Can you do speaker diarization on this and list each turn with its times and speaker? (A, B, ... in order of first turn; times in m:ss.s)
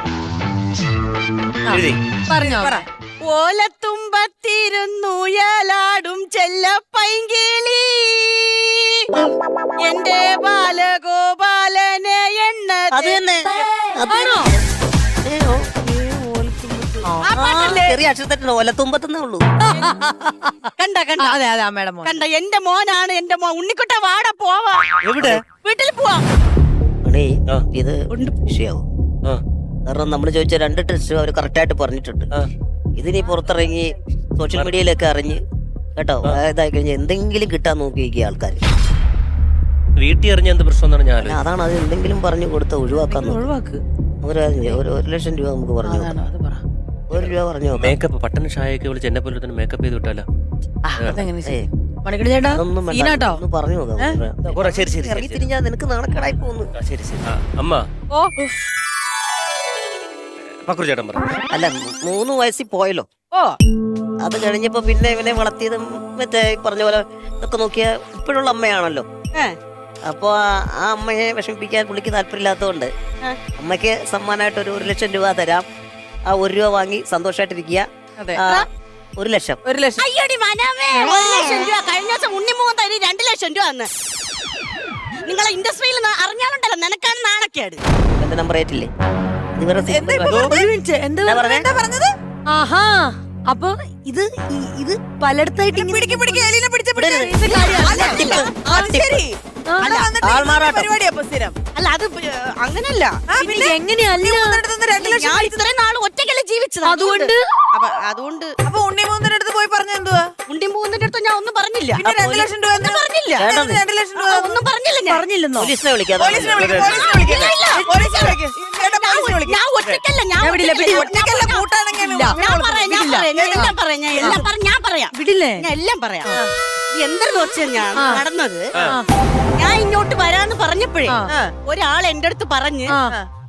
0:01.7-0:02.0 A
0:01.7-0:02.7 B
0:02.4-0:02.8 C
0:03.2-0:09.1 D
0:09.8-0:13.2 D
0:12.9-0:14.6 E
0:14.1-0:14.4 B
0:15.2-0:19.4 E
0:17.2-0:18.0 D
0:19.7-0:20.7 B
0:20.8-0:21.4 D
0:21.2-0:22.2 B
0:22.0-0:24.8 D
0:25.0-0:25.4 A
0:25.6-0:26.2 D
0:27.0-0:28.8 E
0:28.1-0:28.4 D
0:29.8-0:32.3 E
0:33.0-0:35.4 E
0:36.0-0:38.6 E
0:40.0-0:41.4 A
0:41.2-0:43.5 E
0:43.0-0:43.8 B
0:44.2-0:46.2 E
0:45.8-0:46.6 B
0:47.1-0:48.0 E
0:47.1-0:50.2 A
0:50.8-0:53.4 B
0:51.0-0:51.2 A
0:52.5-0:56.7 E
0:54.5-0:55.5 A
0:56.7-0:57.8 A
1:00.6-1:01.3 A
1:01.5-1:03.1 E
1:04.2-1:09.0 E
1:10.0-1:12.9 E
1:13.6-1:15.6 E
1:16.3-1:18.7 E
1:19.2-1:19.6 E
1:19.6-1:20.0 C
1:20.0-1:23.9 D
1:25.2-1:27.8 D
1:28.2-1:28.9 E
1:29.6-1:30.6 E
1:29.8-1:30.6 C
1:30.3-1:31.2 B
1:31.2-1:32.1 C
1:31.2-1:31.7 E
1:32.5-1:32.9 B
1:33.5-1:36.4 B
1:35.7-1:41.6 C
1:37.0-1:37.4 E
1:37.5-1:38.0 B
1:37.8-1:38.5 D
1:37.9-1:39.2 E
1:39.8-1:40.1 D
1:40.2-1:40.9 E
1:41.7-1:43.2 D
1:43.3-1:45.6 C
1:43.4-1:44.5 B
1:45.0-1:48.5 D
1:46.8-1:47.4 B
1:48.6-1:50.3 C
1:50.5-1:52.0 D
1:52.0-1:54.6 C
1:52.0-1:52.5 E
1:52.8-1:53.5 D
1:53.4-1:53.8 E
1:54.2-1:55.2 D
1:55.1-1:55.7 B
1:55.6-1:56.9 E
1:56.2-1:59.6 C
1:56.3-1:57.1 A
1:56.7-2:01.6 D
2:00.4-2:01.0 B
2:00.8-2:04.4 C
2:02.0-2:02.4 B
2:02.3-2:06.4 D
2:02.9-2:03.3 B
2:04.2-2:04.5 B
2:05.2-2:05.6 B
2:06.9-2:08.7 D
2:08.0-2:08.2 B
2:09.6-2:12.9 D